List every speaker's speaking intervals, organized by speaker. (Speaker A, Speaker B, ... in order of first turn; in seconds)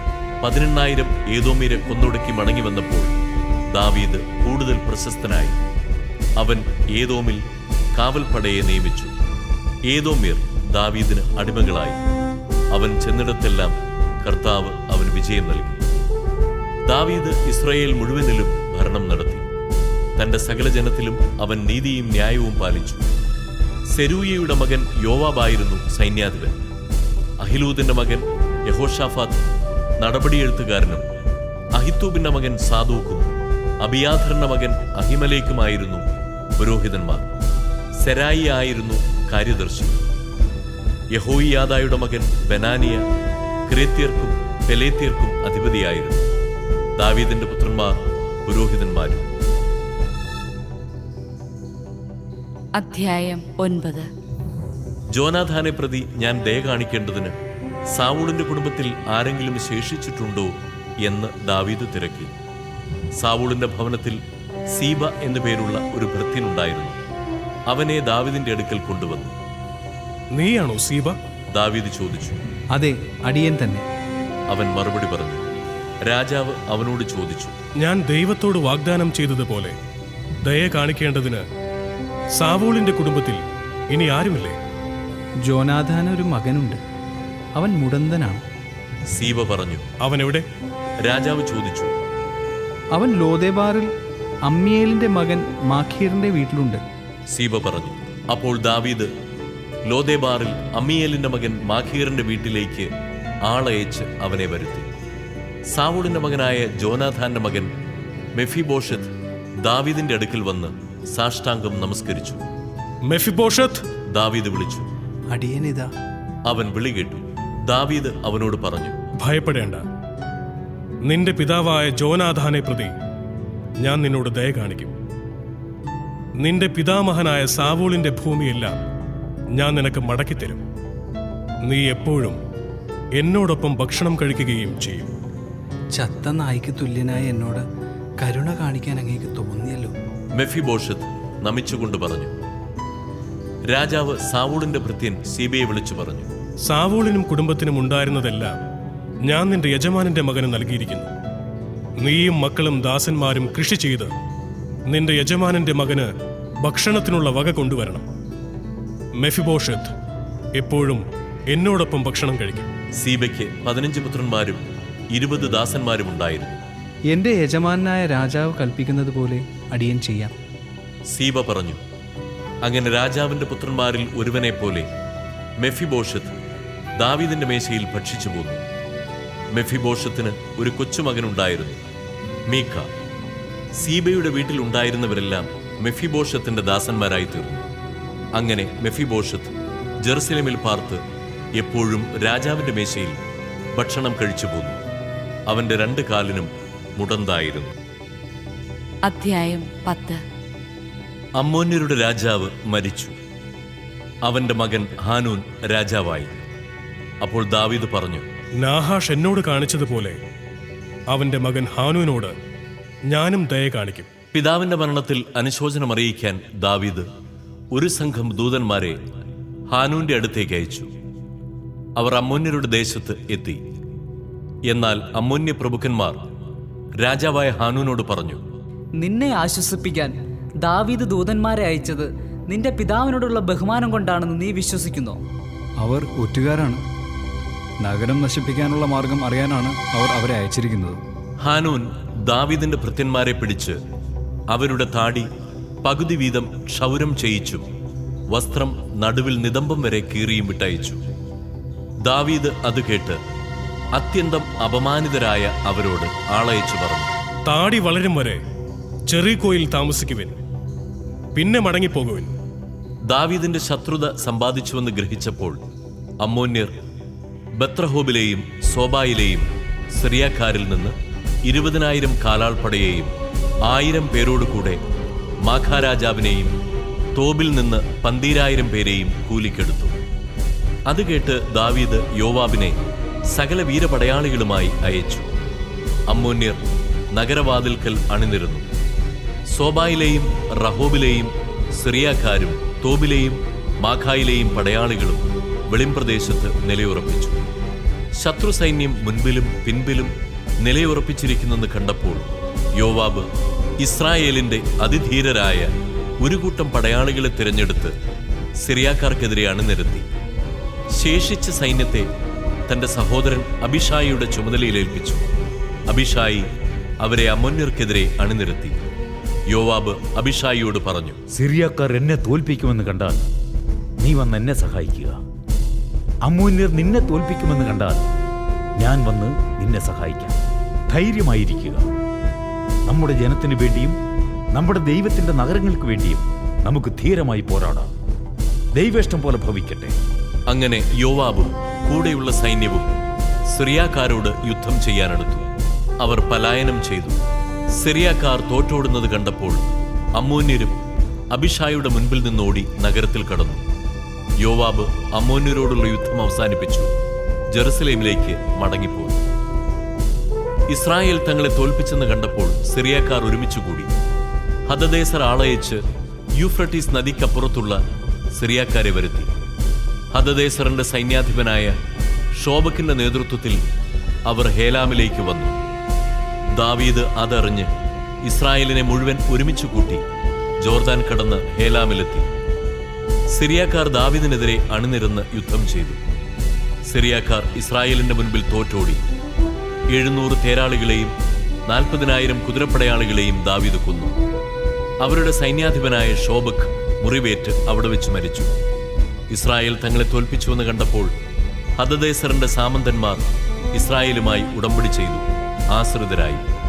Speaker A: 0.4-3.1, 3.7-5.6, 6.4-7.4, 7.9-9.1, 9.9-12.0, 12.7-15.8, 16.8-19.4, 20.2-23.0, 23.9-26.6, 27.4-29.4, 30.0-31.0, 31.7-33.3, 33.8-36.0, 36.6-37.3, 38.0-40.0, 41.1-43.0, 43.7-46.2, 47.0-49.2, 55.1-57.3, 57.9-62.3, 63.2-64.2, 64.7-67.0, 67.7-69.3, 71.5-72.4, 74.5-75.4, 76.0-77.5, 89.1-89.8, 91.0-91.9, 97.3-99.1, 99.8-102.9, 103.5-104.9, 105.7-107.7, 108.3-109.1, 109.6-112.4, 114.1-114.9, 116.5-119.0, 140.3-142.3, 143.7-146.3, 162.9-164.6, 165.1-166.6, 171.1-171.8, 172.6-174.9, 175.6-176.3, 177.0-178.6, 179.5-181.8, 182.5-182.9, 183.7-187.7, 188.3-191.0, 191.6-193.2, 193.7-194.8, 195.5-197.7, 201.4-203.1, 204.2-206.3, 207.2-208.2, 214.3-217.1, 217.7-219.0, 219.7-220.9, 222.0-223.6, 224.7-226.2, 227.0-228.4, 241.4-243.8, 244.5-245.3, 245.8-247.7, 248.3-251.0, 252.0-253.2, 253.9-257.1, 263.1-265.6, 266.2-266.7, 267.5-273.1, 273.6-274.8, 275.4-276.5, 277.1-279.9, 280.9-282.8, 283.3-285.3, 286.1-286.6, 287.1-288.7, 289.5-297.4, 298.1-303.3, 303.8-305.7, 306.2-307.9, 308.6-310.1, 310.9-312.1, 312.7-315.2, 315.9-316.5, 317.0-318.8, 319.5-321.2, 340.5-342.9, 343.5-345.5, 346.0-347.2, 347.8-349.6, 350.1-350.8, 351.3-353.6, 354.4-356.9, 357.5-359.2, 360.7-363.9, 364.7-365.8, 366.4-367.8, 368.3-369.3, 370.1-371.7, 372.4-373.6, 374.2-375.6, 376.5-377.7, 378.2-380.0, 380.6-382.3, 383.3-386.0, 386.9-389.0, 389.9-391.1, 391.7-394.1, 395.0-398.5, 399.3-401.1, 401.8-406.4
Speaker B: 52.8-54.1, 72.7-73.8, 85.4-86.8, 87.5-88.4, 93.0-93.9, 94.5-96.8, 115.3-115.9, 135.9-137.6, 138.2-139.9, 167.1-170.3, 199.1-200.2, 235.8-236.8, 237.8-241.0
Speaker C: 70.3-71.2, 77.8-79.8, 80.4-81.4, 82.4-84.6, 90.0-90.5, 113.1-113.8, 119.2-119.8, 121.0-122.9, 123.8-124.9, 126.4-128.8, 129.6-130.6, 131.7-132.4, 133.2-135.1, 146.7-148.5, 149.3-151.1, 152.0-154.1, 154.9-156.1, 156.6-158.0, 159.2-159.9, 160.6-162.7, 208.6-210.2, 211.1-212.3, 213.1-214.1, 257.5-258.4, 259.1-260.4, 261.3-262.3
Speaker D: 229.0-235.2
Speaker E: 321.3-323.2, 324.0-325.2, 326.2-328.0, 328.8-330.4, 330.9-331.9, 332.9-334.0, 334.5-337.9, 338.7-339.9